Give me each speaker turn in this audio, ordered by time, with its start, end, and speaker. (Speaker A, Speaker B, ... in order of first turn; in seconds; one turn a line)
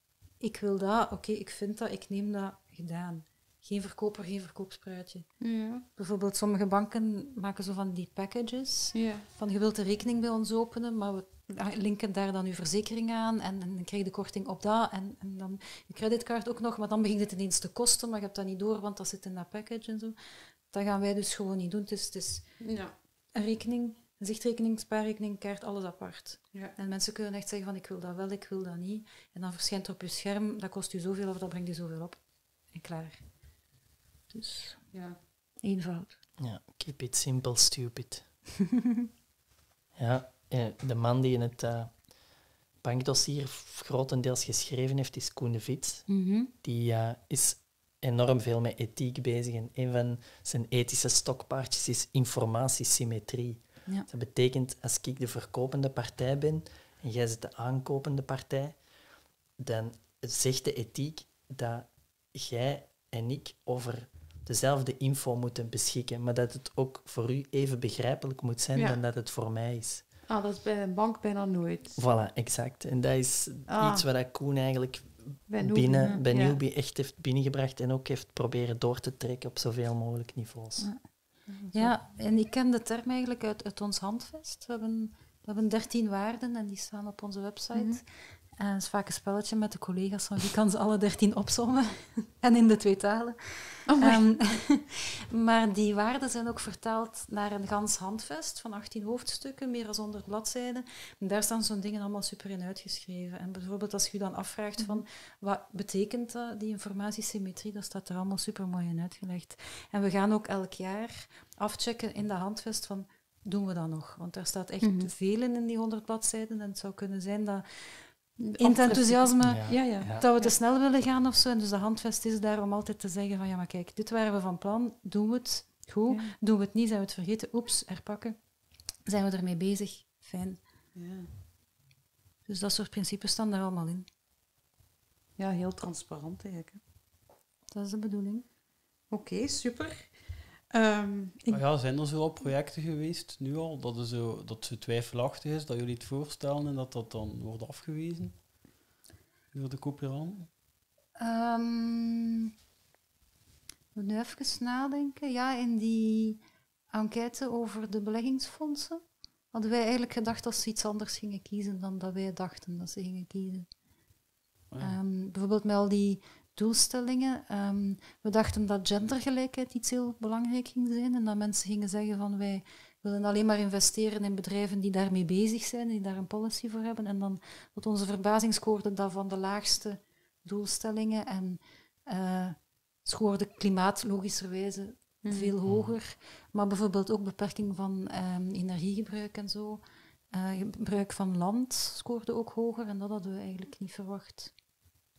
Speaker A: 0.4-20.1
Speaker B: 5.4-5.8
Speaker B: 8.9-9.3
Speaker A: 20.7-22.6
Speaker B: 22.6-22.9
Speaker A: 23.3-32.2
Speaker A: 32.7-33.2
Speaker A: 34.3-34.9
Speaker B: 34.9-35.2
Speaker A: 35.6-36.2
Speaker C: 36.4-38.3
Speaker C: 40.0-42.0
Speaker C: 42.8-58.8
Speaker A: 46.1-46.5
Speaker C: 59.6-70.0
Speaker B: 70.3-72.0
Speaker C: 72.0-81.0
Speaker B: 73.7-74.1
Speaker B: 75.5-76.6
Speaker A: 80.8-81.0
Speaker B: 81.5-82.0
Speaker A: 81.7-128.4
Speaker B: 87.7-88.0
Speaker B: 93.9-94.2
Speaker B: 104.8-105.0
Speaker B: 114.8-115.1
Speaker B: 118.4-120.5
Speaker C: 119.4-120.3
Speaker B: 126.1-126.3
Speaker A: 129.1-130.6
Speaker B: 130.9-131.3
Speaker A: 132.4-134.1
Speaker B: 135.4-136.8
Speaker A: 137.7-138.4
Speaker B: 139.1-141.6
Speaker D: 141.5-148.4
Speaker D: 149.5-150.5
Speaker A: 151.2-152.5
Speaker A: 153.9-163.7
Speaker D: 164.7-165.0
Speaker A: 164.8-194.5
Speaker B: 185.2-185.5